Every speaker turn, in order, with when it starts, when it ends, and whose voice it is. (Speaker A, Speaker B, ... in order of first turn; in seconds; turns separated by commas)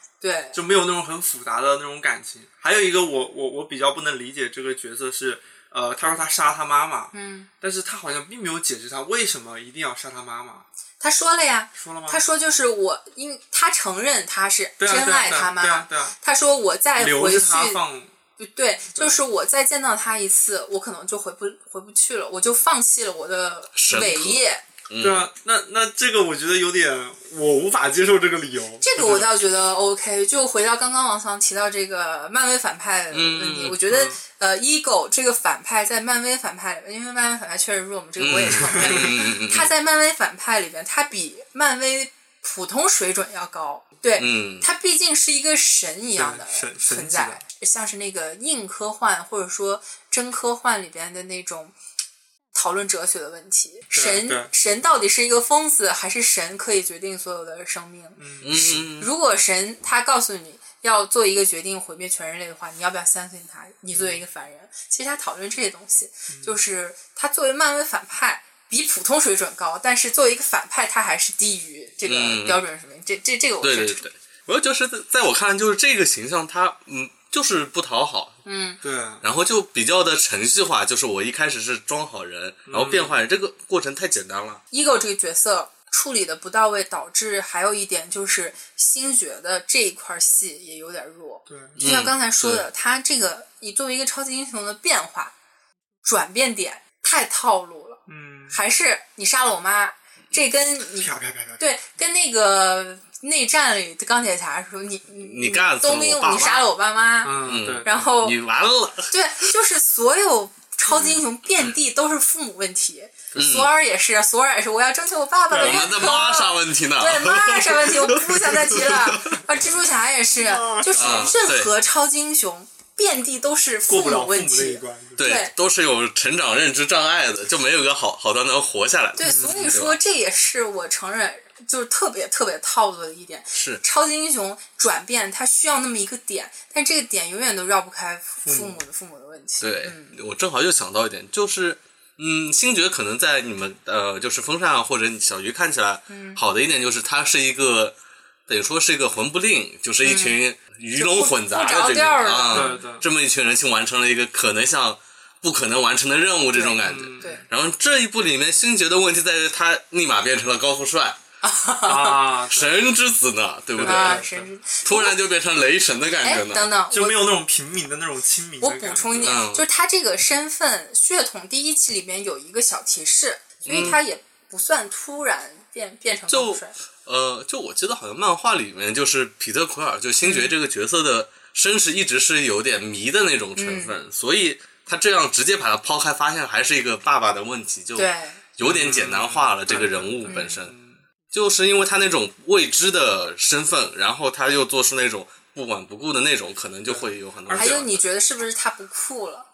Speaker A: 0.2-0.6, Speaker B: 0.5-10.7, Speaker A: 7.1-7.5, Speaker A: 11.0-17.8, Speaker B: 11.7-12.2, Speaker B: 14.8-16.1, Speaker B: 17.0-18.1, Speaker A: 18.4-24.6, Speaker C: 23.8-25.3, Speaker B: 25.0-29.3, Speaker A: 28.8-51.7, Speaker C: 33.1-33.8, Speaker B: 33.9-34.2, Speaker C: 38.2-39.7, Speaker B: 38.5-39.2, Speaker C: 44.2-44.6, Speaker B: 46.1-47.4, Speaker A: 52.5-74.0, Speaker B: 53.9-54.5, Speaker B: 58.2-58.9, Speaker C: 58.4-59.1, Speaker B: 63.9-64.2, Speaker B: 66.3-66.6, Speaker C: 72.0-72.6, Speaker C: 73.6-78.4, Speaker A: 78.4-78.8, Speaker B: 78.8-79.2, Speaker C: 79.2-84.6, Speaker B: 82.7-83.2, Speaker A: 84.7-95.3, Speaker B: 91.5-91.8, Speaker C: 91.8-92.7, Speaker A: 96.0-108.4, Speaker B: 98.1-98.6, Speaker B: 101.0-101.7, Speaker C: 105.2-106.7, Speaker B: 107.2-108.1, Speaker C: 107.4-109.1, Speaker A: 109.1-125.5, Speaker C: 113.3-113.7, Speaker B: 115.5-116.2, Speaker C: 115.6-119.4, Speaker B: 120.3-121.3, Speaker C: 120.9-121.7, Speaker B: 123.9-125.3, Speaker C: 125.2-130.0, Speaker A: 129.2-140.2, Speaker B: 129.2-129.7, Speaker C: 133.5-133.8, Speaker B: 138.4-138.8, Speaker C: 139.6-147.9, Speaker A: 146.1-146.4, Speaker C: 148.5-161.2, Speaker A: 150.0-150.4, Speaker A: 150.9-152.8, Speaker B: 152.5-153.1, Speaker A: 156.5-157.4, Speaker B: 156.8-157.4, Speaker A: 161.4-162.2, Speaker B: 161.8-162.7, Speaker C: 162.5-164.3, Speaker B: 163.7-164.5, Speaker A: 163.8-165.2, Speaker C: 164.8-166.7, Speaker A: 166.2-167.2, Speaker B: 166.9-169.3, Speaker A: 168.6-176.7, Speaker C: 169.2-169.6, Speaker C: 173.7-174.0, Speaker C: 176.3-190.7, Speaker A: 180.2-180.5, Speaker A: 183.6-183.9, Speaker A: 187.9-188.4, Speaker B: 188.6-191.0, Speaker A: 190.2-190.6, Speaker C: 191.3-198.0, Speaker B: 196.8-197.8, Speaker A: 197.5-199.4